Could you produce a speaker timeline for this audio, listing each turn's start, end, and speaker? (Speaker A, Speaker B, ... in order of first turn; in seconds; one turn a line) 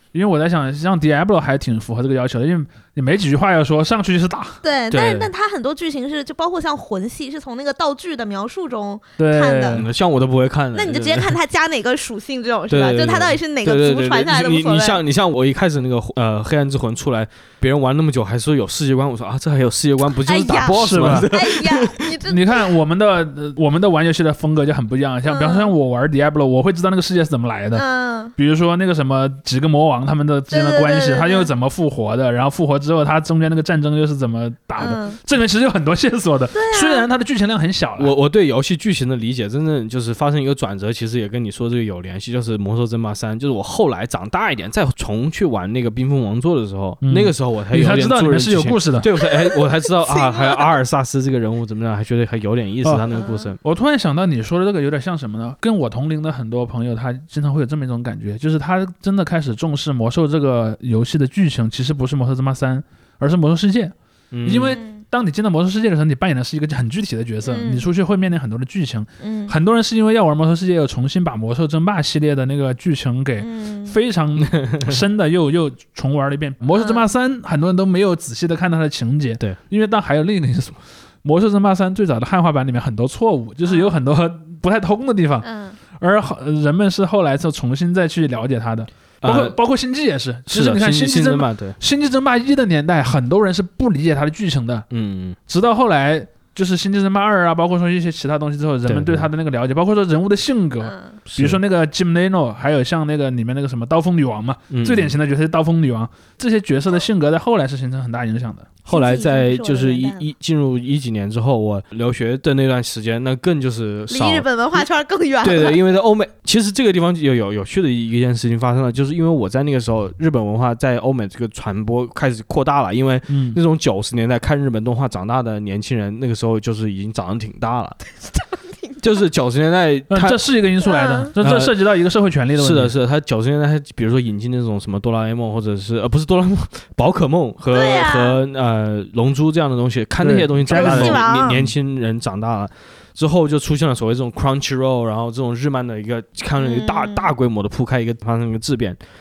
Speaker A: 0.1-4.6
Speaker B: 4.6-9.8
Speaker C: 4.9-5.3
Speaker A: 9.2-9.9
Speaker C: 9.7-11.3
Speaker B: 10.8-15.0
Speaker C: 12.7-22.1
Speaker B: 20.2-22.6
Speaker A: 20.8-21.3
Speaker A: 22.3-27.8
Speaker B: 25.3-25.7
Speaker B: 27.7-28.3
Speaker A: 28.4-38.1
Speaker B: 30.5-31.5
Speaker B: 34.8-35.2
Speaker B: 36.5-37.1
Speaker C: 38.0-53.6
Speaker A: 47.0-49.1
Speaker B: 49.2-50.7
Speaker B: 53.1-53.5
Speaker A: 53.6-94.8
Speaker C: 64.3-64.8
Speaker B: 64.7-65.0
Speaker B: 67.5-67.9
Speaker B: 69.2-69.5
Speaker B: 73.4-74.0
Speaker C: 74.4-74.9
Speaker B: 76.8-77.0
Speaker B: 85.4-85.8
Speaker C: 89.2-89.6
Speaker C: 90.5-91.8
Speaker C: 94.9-95.4
Speaker A: 95.5-108.7
Speaker C: 98.9-99.3
Speaker B: 100.8-101.2
Speaker C: 101.3-101.6
Speaker C: 104.7-105.1
Speaker C: 108.9-114.8
Speaker B: 108.9-110.3
Speaker B: 114.1-115.8
Speaker C: 115.4-128.0
Speaker A: 123.3-123.6
Speaker B: 128.2-129.2
Speaker C: 129.0-130.4
Speaker A: 130.1-132.9
Speaker B: 130.8-131.3
Speaker C: 131.4-131.8
Speaker C: 132.6-149.0
Speaker B: 137.7-138.4
Speaker A: 140.2-141.2
Speaker B: 140.7-141.6
Speaker B: 146.6-147.3